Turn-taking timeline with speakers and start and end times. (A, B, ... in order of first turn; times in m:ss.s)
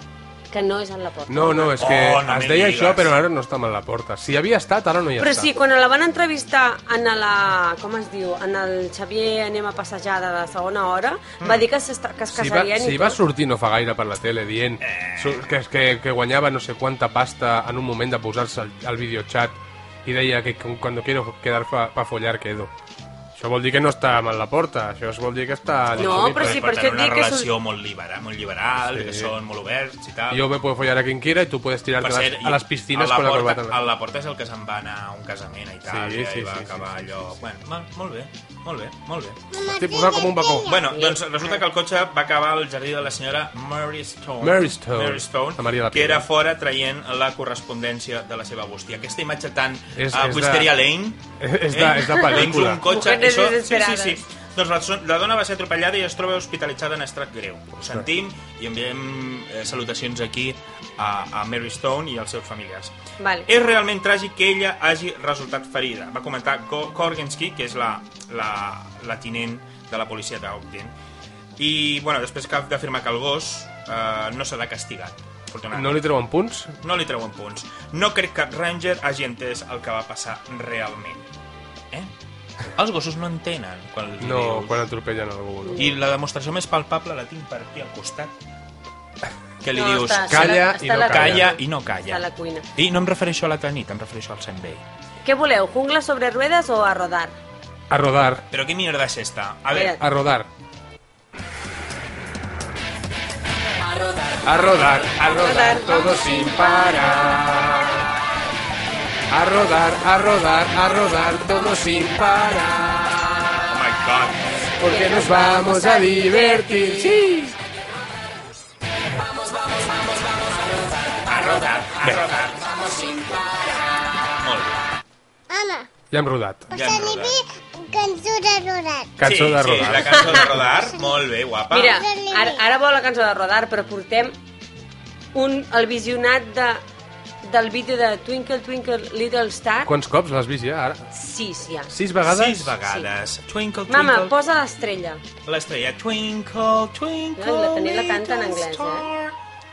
0:00.5-0:01.8 A
0:01.3-0:05.5 B
0:01.8-0:03.1 C
0:05.2-0:13.2 A
0:11.4-0:11.7 C
0:12.3-0:22.7 B
0:14.8-0:15.5 C
0:23.3-0:26.7 B
0:26.0-0:30.4 C
0:26.0-0:27.5 A
0:28.8-0:29.3 B
0:30.3-0:33.8 B
0:32.0-0:39.4 C
0:35.9-0:37.1 B
0:39.5-0:40.8 D
0:39.7-0:40.7 B
0:40.7-1:02.9 C
0:40.9-0:41.5 A
0:44.4-0:46.3 B
0:50.0-0:50.7 B
0:51.4-0:52.8 B
0:52.2-0:54.2 A
1:03.2-1:03.5 A
1:03.4-1:10.9 C
1:11.6-1:16.0 C
1:15.7-1:16.7 B
1:16.8-1:21.3 C
1:22.7-1:24.8 C
1:24.2-1:25.9 B
1:25.8-1:28.3 C
1:29.6-1:34.8 C
1:29.7-1:32.6 A
1:30.3-1:31.5 B
1:35.2-1:37.3 A
1:37.9-1:38.4 B
1:38.5-1:40.0 C
1:39.7-1:40.0 A
1:39.9-1:40.5 B
1:44.4-1:48.1 B
1:45.2-1:46.2 A
1:49.3-1:53.7 B
1:53.7-1:54.5 C
1:54.8-1:57.5 B
1:54.8-1:57.2 A
2:01.2-2:02.9 C
2:02.0-2:02.3 B
2:04.3-2:04.8 C
2:05.5-2:05.9 D
2:06.1-2:06.7 B
2:06.7-2:09.2 D
2:06.7-2:07.4 C
2:09.2-2:10.8 B
2:09.2-2:12.0 C
2:10.2-2:10.4 A
2:10.7-2:11.2 D
2:11.7-2:14.4 A
2:11.9-2:12.6 D
2:15.3-2:16.8 A
2:17.4-2:19.9 A
2:19.8-2:21.1 B
2:21.1-2:21.9 A
2:21.9-2:22.7 B
2:22.2-2:24.3 C
2:23.9-2:25.2 A
2:25.4-2:29.3 C
2:27.4-2:29.1 A